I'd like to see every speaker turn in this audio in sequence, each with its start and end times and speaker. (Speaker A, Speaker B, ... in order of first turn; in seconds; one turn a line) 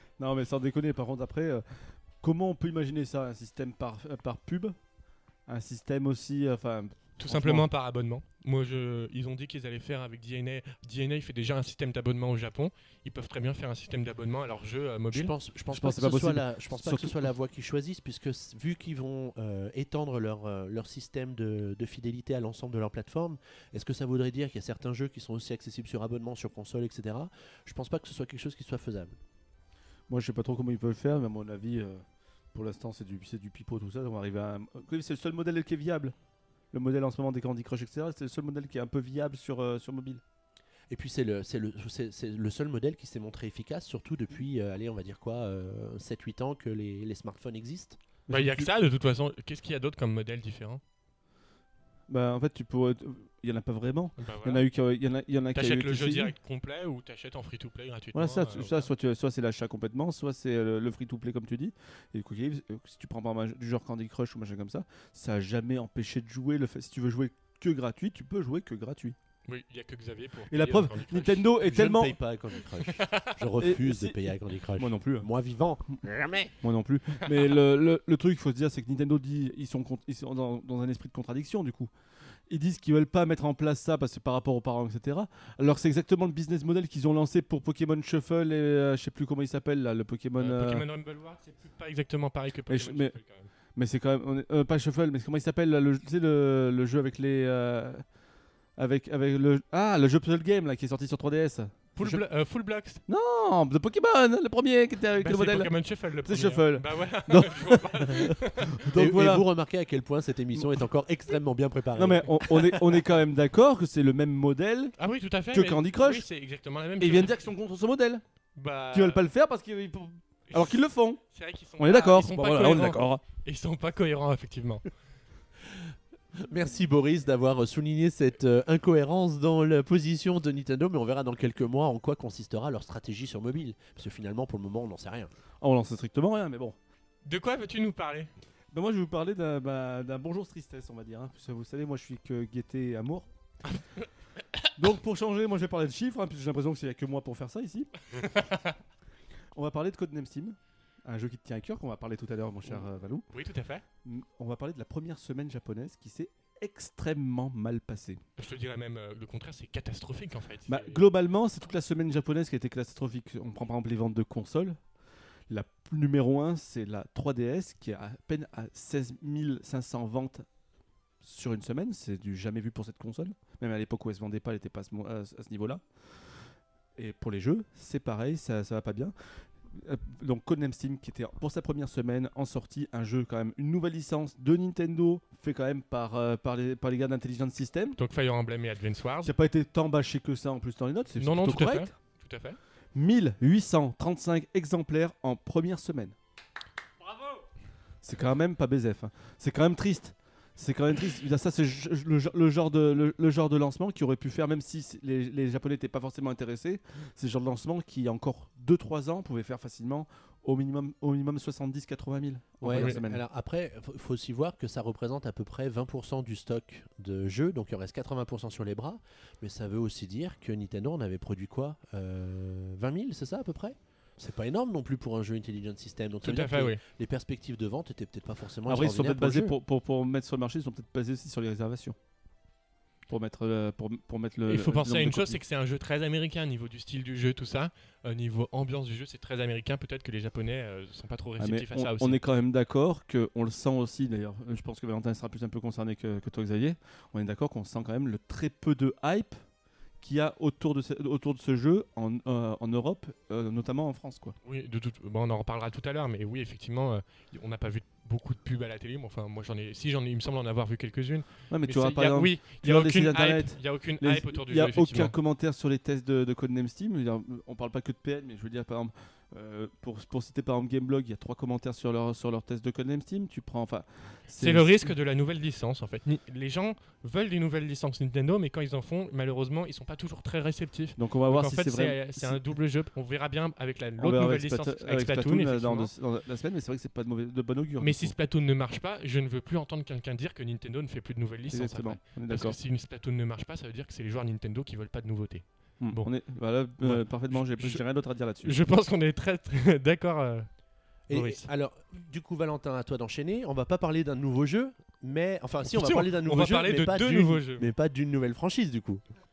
Speaker A: 0.2-1.6
Speaker A: 2.2-4.7
Speaker A: 5.5-7.7
Speaker B: 7.2-15.3
Speaker C: 15.1-29.2
Speaker A: 15.7-17.3
Speaker A: 30.1-36.1
Speaker A: 36.7-40.2
Speaker C: 40.9-48.0
Speaker A: 48.3-48.7
Speaker B: 48.3-50.8
Speaker A: 52.1-56.3
Speaker B: 54.2-54.6
Speaker B: 55.5-58.9
Speaker A: 58.1-69.2
Speaker B: 69.5-71.4
Speaker A: 70.5-72.2
Speaker C: 71.6-76.5
Speaker B: 72.8-73.3
Speaker A: 73.6-75.3
Speaker A: 76.6-81.9
Speaker A: 82.5-90.8
Speaker B: 90.4-93.5
Speaker A: 92.7-93.1
Speaker A: 93.8-98.0
Speaker A: 98.8-102.2
Speaker B: 102.0-103.0
Speaker A: 103.1-105.7
Speaker B: 105.2-108.8
Speaker A: 106.2-109.5
Speaker C: 108.9-113.0
Speaker A: 112.0-115.0
Speaker B: 115.0-117.4
Speaker A: 115.5-116.2
Speaker A: 117.0-118.2
Speaker B: 118.5-119.2
Speaker A: 118.9-121.2
Speaker B: 120.5-120.8
Speaker B: 121.3-124.8
Speaker A: 121.8-123.2
Speaker C: 126.3-135.3
Speaker A: 135.6-136.8
Speaker B: 137.2-138.3
Speaker A: 138.7-143.3
Speaker B: 143.7-144.0
Speaker A: 144.8-147.9
Speaker B: 148.2-148.7
Speaker A: 149.5-153.2
Speaker B: 153.3-153.8
Speaker A: 154.0-158.2
Speaker B: 158.4-161.0
Speaker A: 160.7-164.8
Speaker A: 165.5-170.4
Speaker A: 171.2-175.8
Speaker A: 176.9-179.1
Speaker A: 179.7-188.0
Speaker B: 188.0-189.3
Speaker A: 189.2-191.9
Speaker B: 191.2-192.6
Speaker A: 192.9-196.1
Speaker A: 198.0-213.2
Speaker C: 212.6-229.5
Speaker B: 226.2-226.8
Speaker A: 228.7-231.9
Speaker A: 233.1-235.4
Speaker B: 234.5-242.2
Speaker A: 241.4-249.4
Speaker A: 250.0-254.3
Speaker B: 254.4-265.1
Speaker A: 261.5-274.9
Speaker B: 274.4-285.9
Speaker A: 281.0-282.4
Speaker A: 284.0-288.1
Speaker B: 287.8-296.1
Speaker A: 291.5-292.6
Speaker A: 295.8-298.6
Speaker B: 296.8-297.8
Speaker B: 298.4-300.5
Speaker C: 301.1-309.0
Speaker B: 301.1-301.5
Speaker B: 305.7-307.7